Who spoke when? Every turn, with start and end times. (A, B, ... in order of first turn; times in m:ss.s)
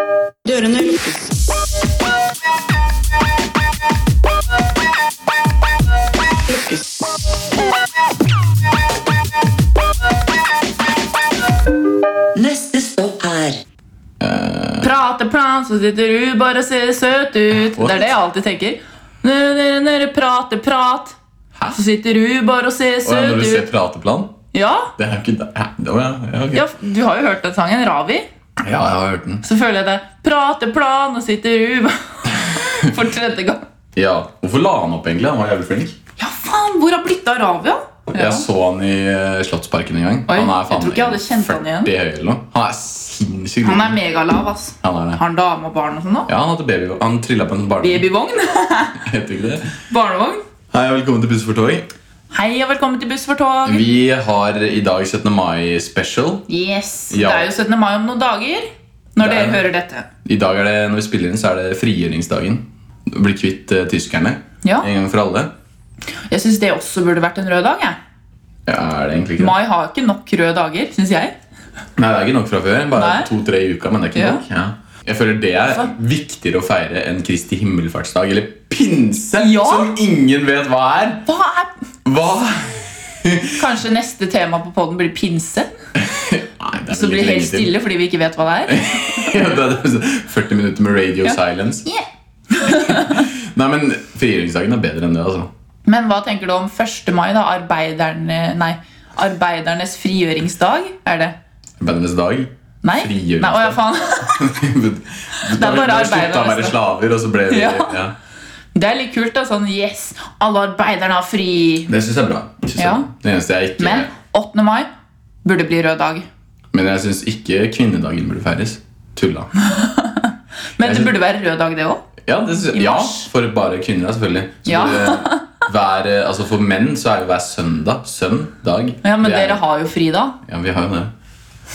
0:00.4-0:01.3 A
0:06.5-0:07.1 A
0:12.3-0:13.6 A
0:14.2-0:14.9 B
0:14.8-0:21.2 C
0:17.7-0:18.0 B
0:21.7-0:23.7 C
0:23.0-0:24.3 B
0:24.5-0:24.9 C
0:25.0-0:26.6 B
0:26.5-0:28.2 C
0:28.6-0:29.4 B
0:29.4-0:33.6 C
0:32.3-0:32.8 B
0:34.0-0:36.0 B
0:36.2-0:38.4 C
0:38.1-0:44.0 B
0:40.3-0:41.9 C
0:43.6-0:46.3 C
0:44.8-0:45.2 B
0:46.3-0:48.0 B
0:47.8-0:49.0 C
0:49.0-0:49.8 B
0:49.9-0:50.4 C
0:50.7-0:51.9 B
0:52.3-0:53.8 C
0:53.6-0:56.5 B
0:56.5-1:00.1 C
0:57.1-0:57.5 B
0:59.2-0:59.6 B
1:00.2-1:05.5 B
1:04.6-1:04.9 C
1:06.3-1:08.0 C
1:08.7-1:09.5 B
1:09.4-1:11.4 C
1:12.0-1:21.3 B
1:12.9-1:13.3 C
1:14.1-1:14.4 C
1:19.4-1:20.0 C
1:21.2-1:21.7 C
1:22.0-1:23.6 B
1:23.6-1:25.7 C
1:26.0-1:27.7 B
1:26.9-1:29.5 C
1:28.7-1:31.9 B
1:31.2-1:33.3 C
1:32.6-1:35.5 B
1:35.8-1:41.4 C
1:41.8-1:48.1 B
1:42.8-1:44.6 C
1:45.5-1:46.8 C
1:47.5-1:48.0 C
1:48.7-1:51.9 C
1:51.9-1:54.1 B
1:52.8-1:53.1 C
1:53.8-1:54.9 C
1:55.4-1:56.3 C
1:56.7-1:59.5 B
1:59.6-2:02.0 C
2:00.8-2:01.1 B
2:02.2-2:09.6 B
2:02.7-2:03.3 C
2:04.6-2:05.4 C
2:09.0-2:10.4 C
2:10.4-2:11.1 B